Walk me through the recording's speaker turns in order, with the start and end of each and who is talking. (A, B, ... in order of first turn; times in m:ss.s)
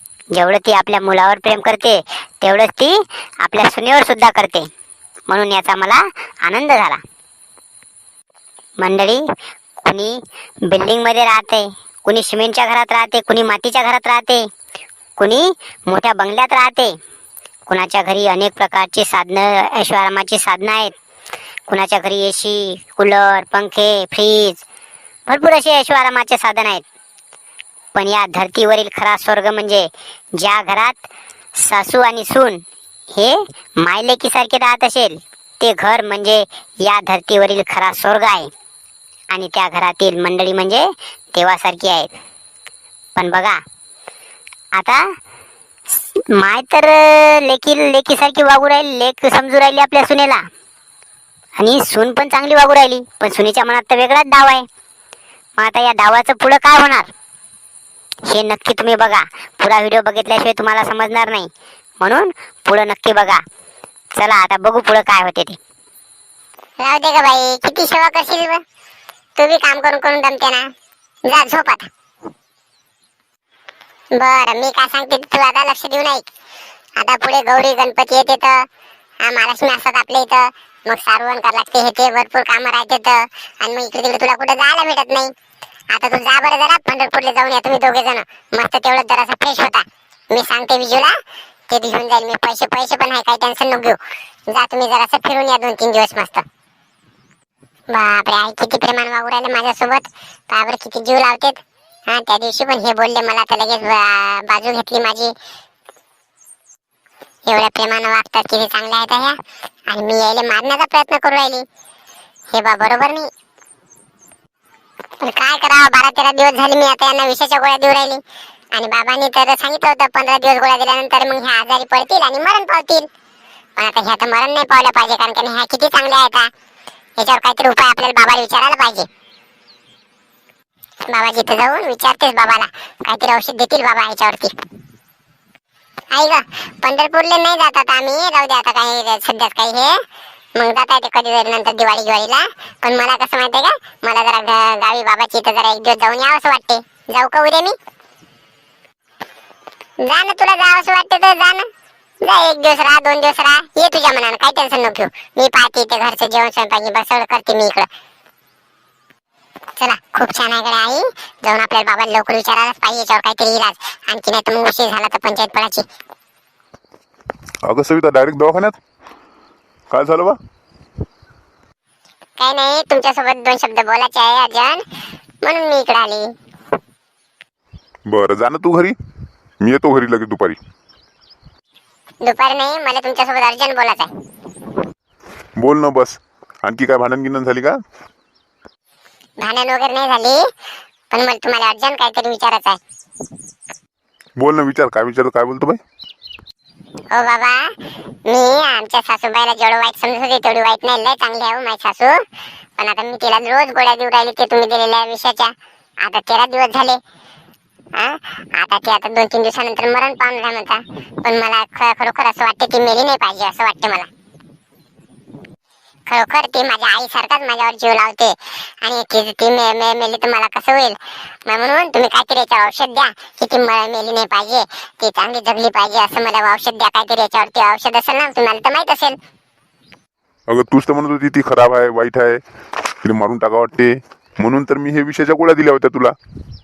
0:00.3-0:04.7 A
0:05.3-0:07.0 A
0:08.8-0:09.3 A
0:09.8-0:14.5 A
0:15.2-0:17.0 A
0:17.7-0:20.9 A
0:21.7-0:24.6 A
0:25.3-0:26.8 A
0:28.0-0:38.5 A
0:39.3-0:42.1 A
0:43.2-0:43.6 A
0:44.7-0:45.1 A
0:46.2-0:50.5 A
0:51.6-0:54.7 A
0:55.6-0:57.1 A
0:58.3-1:01.5 A
1:02.0-1:03.4 A
1:04.1-1:05.6 A
1:06.8-1:08.6 B
1:09.4-1:10.7 B
1:11.2-1:11.9 B
1:14.2-1:16.2 B
1:17.0-1:18.6 B
1:19.2-1:25.3 B
1:25.9-1:31.1 B
1:31.7-1:34.0 B
1:34.5-1:36.4 B
1:37.9-1:45.3 B
1:47.5-1:49.4 B
1:49.9-1:51.6 B
1:52.5-1:53.3 B
1:55.2-1:58.2 B
1:58.7-2:03.1 B
2:03.8-2:06.5 B
2:07.2-2:09.1 B
2:11.1-2:14.5 B
2:16.1-2:20.0 B
2:20.6-2:27.8 B
2:30.0-2:31.7 B
2:32.2-2:37.9 B
2:39.8-2:45.8 B
2:47.6-2:48.8 C
2:49.9-2:50.4 C
2:52.4-2:54.8 B
2:55.4-2:56.3 B
2:58.1-2:59.0 C
2:59.6-3:00.6 C
3:02.2-3:04.1 B
3:05.6-3:07.8 C
3:09.4-3:10.4 B
3:11.1-3:12.8 B
3:14.4-3:15.8 C
3:17.1-3:17.7 B
3:18.3-3:22.2 B
3:22.8-3:27.0 B
3:28.0-3:34.1 B
3:36.1-3:49.2 B
3:50.5-3:52.4 C
3:53.0-3:56.2 C